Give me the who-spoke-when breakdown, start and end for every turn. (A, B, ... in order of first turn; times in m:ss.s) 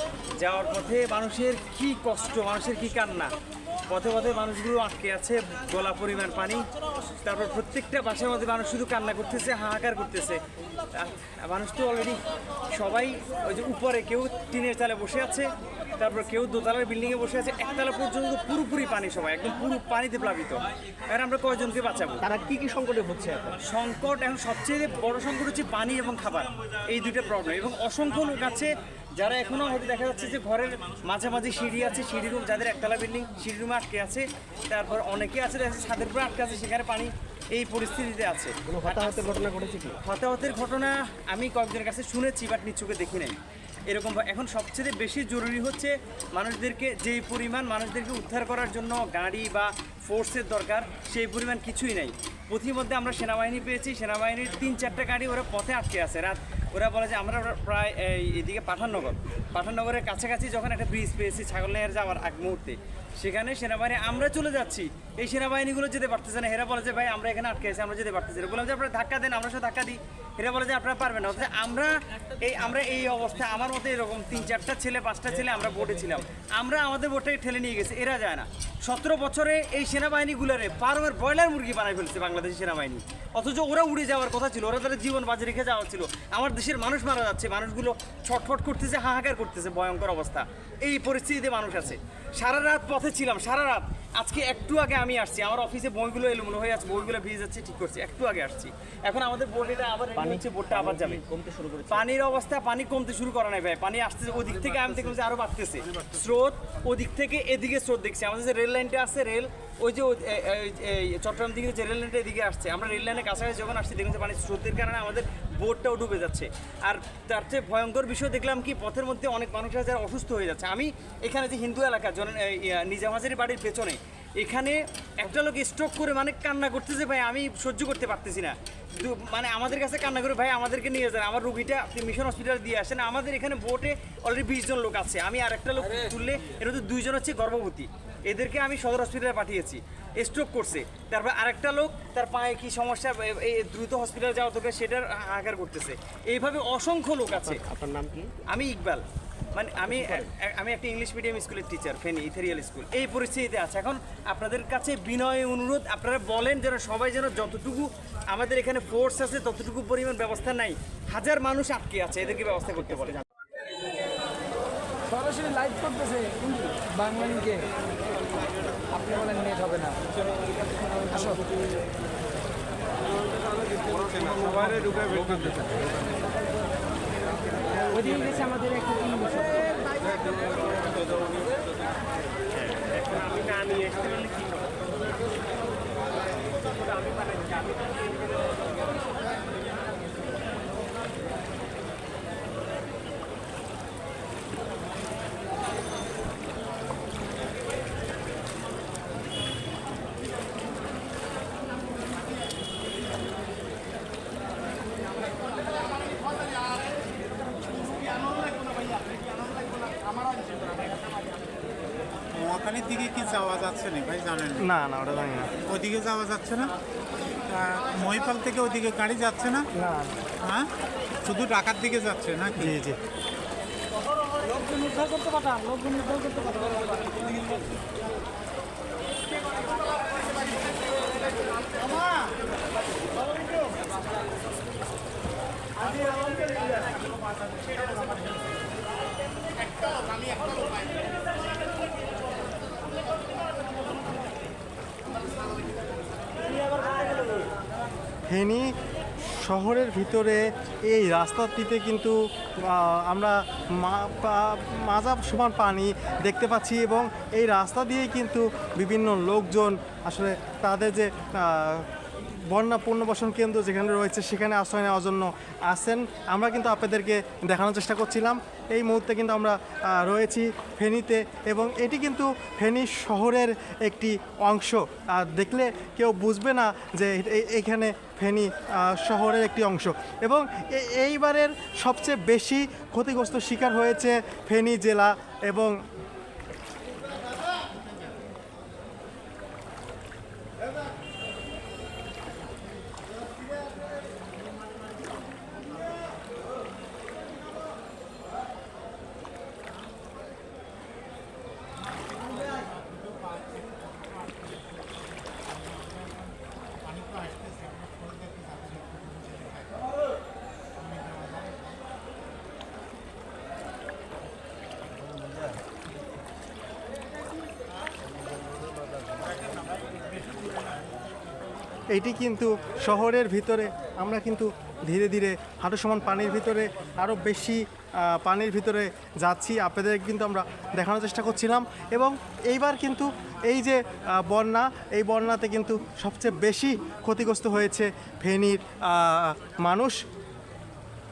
0:00.4-0:03.3 A
0:03.9-0:06.6 A
0:07.2-0:10.4 A
0:10.9-0:12.2 A
0:12.7-0:22.2 A
0:22.2-0:23.6 B
0:23.6-0:39.3 A
0:38.7-0:40.0 B
0:40.0-0:43.4 A
0:43.9-1:41.2 A
1:40.2-1:42.0 B
1:41.9-2:27.6 A
2:27.4-2:28.3 B
2:28.5-2:43.2 A
2:29.9-2:30.3 B
2:45.1-2:47.6 C
2:49.0-2:50.0 C
2:54.3-2:55.6 D
2:58.1-2:59.6 C
3:03.2-3:04.1 B
3:32.3-3:34.7 D
3:34.6-3:35.5 E
3:35.7-3:36.7 D
3:37.5-3:39.7 D
3:39.8-3:40.1 E
3:40.4-3:40.7 D
3:41.2-3:42.8 D
3:42.6-3:43.0 E
4:08.3-4:08.7 E
4:09.3-4:21.9 E
4:22.5-4:45.8 E
5:07.0-5:09.9 D
5:10.8-5:11.2 D
5:21.9-5:40.0 E